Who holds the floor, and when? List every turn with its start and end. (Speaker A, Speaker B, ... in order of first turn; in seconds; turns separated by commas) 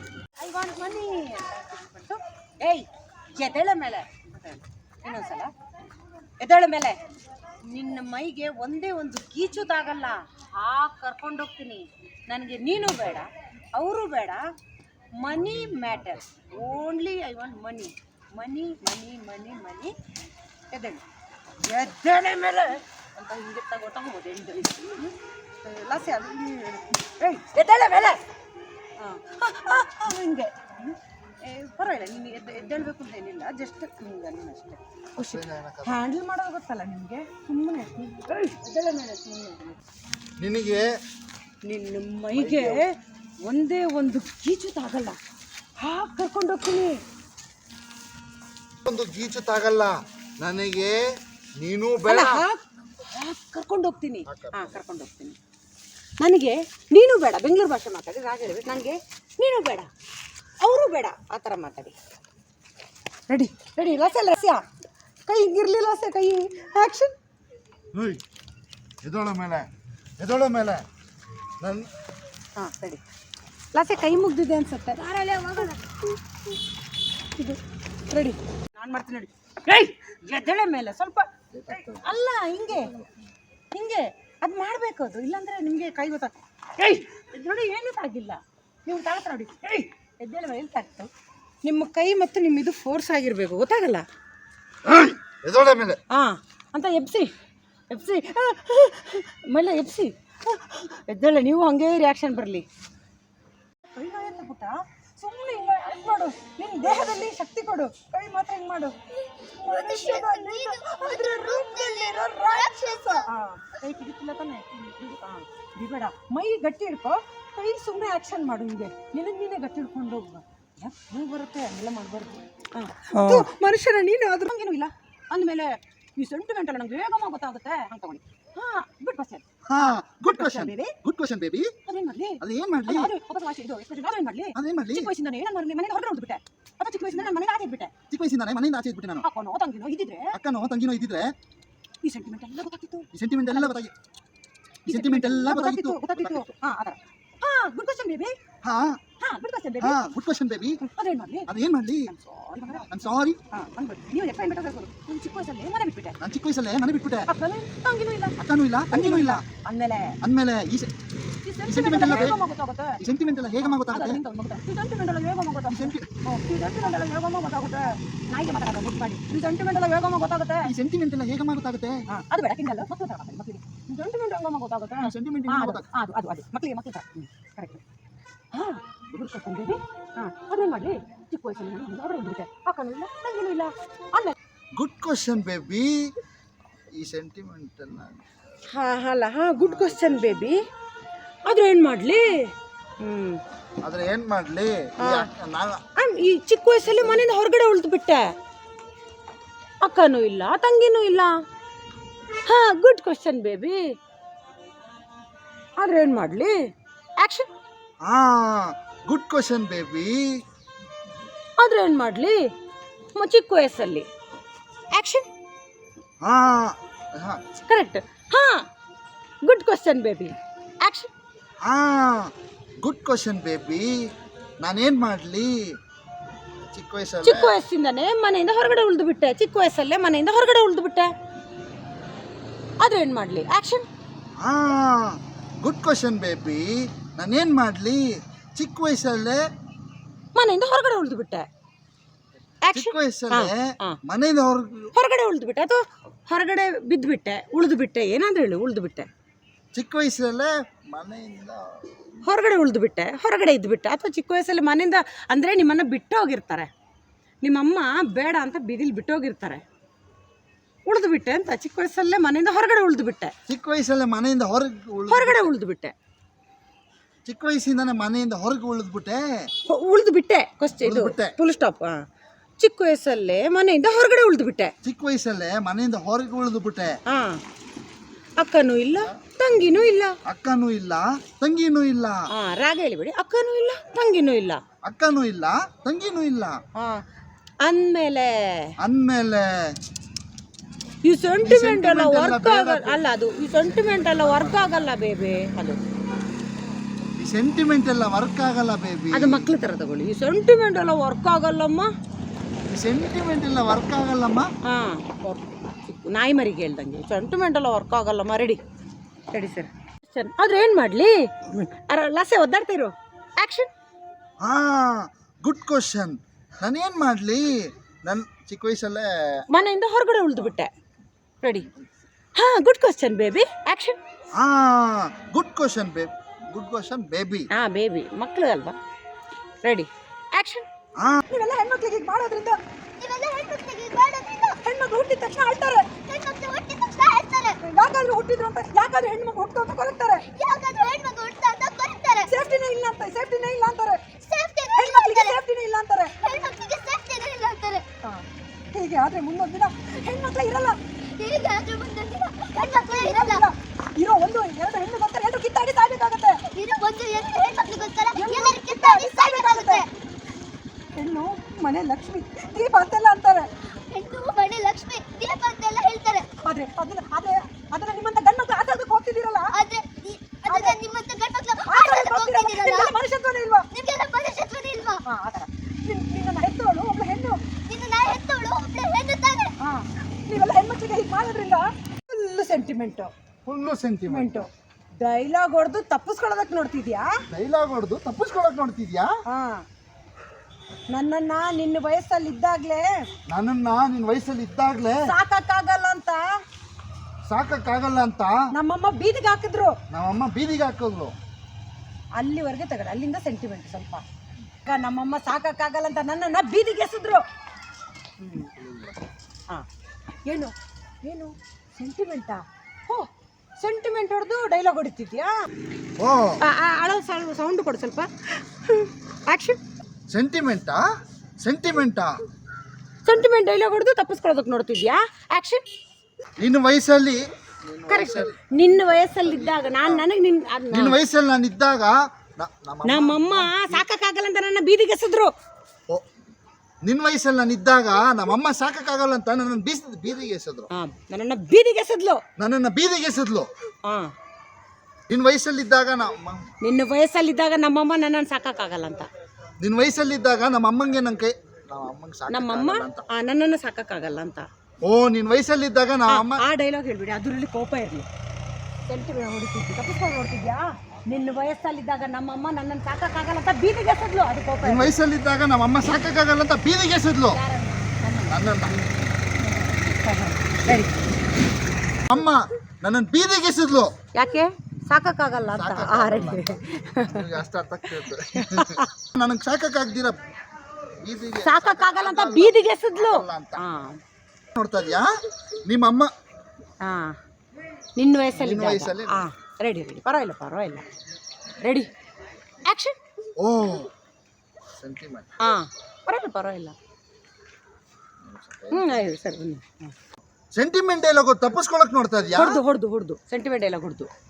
Speaker A: 0.4-5.5, Speaker A: 6.4-7.0, Speaker A: 7.6-14.4, Speaker A: 15.2-19.9, Speaker A: 20.7-21.0, Speaker A: 21.6-28.2, Speaker A: 29.0-39.8, Speaker B: 35.2-36.0, Speaker B: 40.4-40.9, Speaker A: 41.6-42.8, Speaker B: 42.3-42.8, Speaker A: 43.4-45.2, Speaker A: 45.8-47.0, Speaker B: 48.8-51.0, Speaker B: 51.6-52.5, Speaker A: 52.0-55.4, Speaker B: 54.3-54.8, Speaker A: 56.2-59.9, Speaker A: 60.6-61.9, Speaker A: 63.3-64.6, Speaker A: 65.2-67.1, Speaker B: 67.9-68.2, Speaker B: 69.0-69.7, Speaker B: 70.2-70.8, Speaker B: 71.6-71.9, Speaker A: 72.5-73.0, Speaker A: 73.7-76.2, Speaker A: 77.4-82.9, Speaker B: 81.5-83.2, Speaker A: 83.7-91.1, Speaker A: 91.6-94.0, Speaker B: 94.8-96.0, Speaker A: 96.1-97.3, Speaker A: 97.9-102.7, Speaker A: 103.9-108.9, Speaker C: 109.4-113.3, Speaker A: 109.6-130.9, Speaker B: 129.7-131.7, Speaker A: 131.8-137.9, Speaker B: 132.4-133.1, Speaker B: 134.5-135.1, Speaker B: 138.1-139.2, Speaker A: 139.2-140.3, Speaker B: 140.3-141.3, Speaker A: 142.0-143.8, Speaker B: 143.1-143.9, Speaker B: 144.8-146.5, Speaker A: 144.8-148.3, Speaker B: 148.6-149.0, Speaker A: 149.2-150.1, Speaker B: 149.8-150.8, Speaker A: 150.8-151.5, Speaker B: 151.5-152.1, Speaker A: 152.1-152.9, Speaker B: 152.9-153.4, Speaker A: 153.5-156.2, Speaker B: 156.2-157.3, Speaker A: 157.2-158.3, Speaker B: 158.4-159.4, Speaker A: 158.9-160.2, Speaker B: 160.2-160.9, Speaker A: 161.4-163.0, Speaker B: 161.6-162.4, Speaker B: 163.0-164.2, Speaker A: 163.6-170.7, Speaker B: 165.7-166.1, Speaker B: 170.6-172.0, Speaker A: 172.1-177.8, Speaker B: 175.0-175.8, Speaker A: 178.5-184.3, Speaker B: 184.7-186.1, Speaker B: 186.9-188.2, Speaker A: 188.7-190.6, Speaker B: 189.6-190.5, Speaker A: 191.4-192.3, Speaker A: 193.0-193.4, Speaker B: 193.8-195.8, Speaker A: 195.0-195.3, Speaker A: 195.9-198.3, Speaker B: 196.9-197.3, Speaker A: 199.8-201.3, Speaker A: 202.4-203.9, Speaker A: 205.8-206.6, Speaker A: 207.2-207.5, Speaker B: 208.0-210.4, Speaker A: 211.6-212.5, Speaker A: 213.1-214.1, Speaker A: 214.9-215.3, Speaker B: 216.2-217.4, Speaker A: 217.7-218.7, Speaker A: 219.4-221.1, Speaker B: 221.6-224.1, Speaker B: 224.6-225.7, Speaker B: 226.7-227.5, Speaker A: 227.2-231.1, Speaker A: 232.8-233.8, Speaker B: 234.4-239.4, Speaker A: 240.3-241.4, Speaker A: 242.6-244.0, Speaker B: 242.7-244.9, Speaker A: 244.9-249.1, Speaker B: 249.7-252.2, Speaker A: 252.2-256.7, Speaker A: 257.4-259.6, Speaker A: 260.9-263.3, Speaker B: 263.5-265.5, Speaker A: 265.1-265.9, Speaker B: 267.2-269.5, Speaker A: 269.7-272.0, Speaker B: 270.8-271.4, Speaker A: 272.6-274.7, Speaker B: 274.8-276.9, Speaker A: 277.1-277.4, Speaker A: 278.4-280.1, Speaker B: 280.2-282.3, Speaker A: 282.3-284.6, Speaker B: 284.8-286.6, Speaker A: 286.8-287.0, Speaker A: 287.6-288.7, Speaker B: 288.8-289.8, Speaker A: 291.0-295.8, Speaker B: 291.4-294.8, Speaker B: 297.2-299.5, Speaker A: 299.1-301.9, Speaker B: 302.7-304.5, Speaker A: 304.6-308.6, Speaker A: 309.3-313.7, Speaker B: 314.4-319.4, Speaker A: 319.5-320.7, Speaker A: 321.4-321.7, Speaker A: 322.3-324.0, Speaker B: 324.4-327.5, Speaker A: 327.5-328.8, Speaker A: 329.6-330.6, Speaker B: 331.0-331.2, Speaker A: 331.3-332.6, Speaker C: 333.0-334.6, Speaker A: 334.6-335.9, Speaker C: 336.0-337.6, Speaker A: 337.6-340.2, Speaker C: 340.3-342.3, Speaker A: 342.3-344.0, Speaker C: 344.2-345.4, Speaker A: 344.8-346.1, Speaker C: 346.2-347.8, Speaker A: 348.0-350.8, Speaker C: 351.2-353.5, Speaker A: 352.6-356.4, Speaker C: 356.5-359.9, Speaker A: 358.1-359.8, Speaker A: 360.9-363.5, Speaker C: 363.9-366.2, Speaker A: 366.4-369.5, Speaker C: 369.5-373.0, Speaker A: 370.4-370.8, Speaker A: 371.6-373.6, Speaker C: 373.7-375.0, Speaker A: 375.1-377.4, Speaker C: 377.7-379.5, Speaker A: 379.6-383.1, Speaker B: 383.4-384.5, Speaker A: 384.1-387.1, Speaker B: 387.3-389.1, Speaker A: 389.3-389.6, Speaker A: 390.9-393.1, Speaker B: 393.3-395.0, Speaker A: 395.0-396.3, Speaker B: 397.3-398.3, Speaker A: 398.5-399.8, Speaker B: 399.9-401.1, Speaker A: 402.1-404.0, Speaker A: 404.6-407.2, Speaker A: 408.2-408.5, Speaker B: 408.6-409.0, Speaker A: 410.2-415.4, Speaker B: 416.0-416.4, Speaker A: 416.4-419.6, Speaker B: 420.1-420.8, Speaker B: 421.4-422.2, Speaker A: 423.0-425.6, Speaker B: 426.4-430.1, Speaker A: 427.9-431.0, Speaker B: 430.7-433.8, Speaker A: 432.8-435.3, Speaker B: 436.8-440.7, Speaker A: 440.7-442.2, Speaker B: 442.4-443.5, Speaker A: 443.8-444.1, Speaker B: 445.1-446.4, Speaker A: 446.6-449.1, Speaker B: 449.6-453.0, Speaker A: 452.3-454.5, Speaker B: 454.8-456.4, Speaker A: 456.1-458.1, Speaker A: 458.9-464.9, Speaker B: 464.6-467.4, Speaker A: 467.3-468.8, Speaker B: 468.3-468.8, Speaker A: 469.4-470.9, Speaker B: 472.1-473.9, Speaker A: 474.1-477.4, Speaker B: 475.5-480.2, Speaker A: 478.2-478.9, Speaker B: 481.0-483.6, Speaker A: 481.4-484.0, Speaker B: 484.6-485.1, Speaker B: 485.6-486.1, Speaker A: 486.8-487.1, Speaker A: 487.9-490.8, Speaker B: 488.4-489.2, Speaker A: 491.6-491.9, Speaker A: 492.7-493.0, Speaker B: 493.4-493.9, Speaker B: 494.7-495.3, Speaker A: 495.4-496.7, Speaker B: 498.2-498.9, Speaker A: 498.7-499.9, Speaker B: 500.5-502.6, Speaker A: 502.3-504.1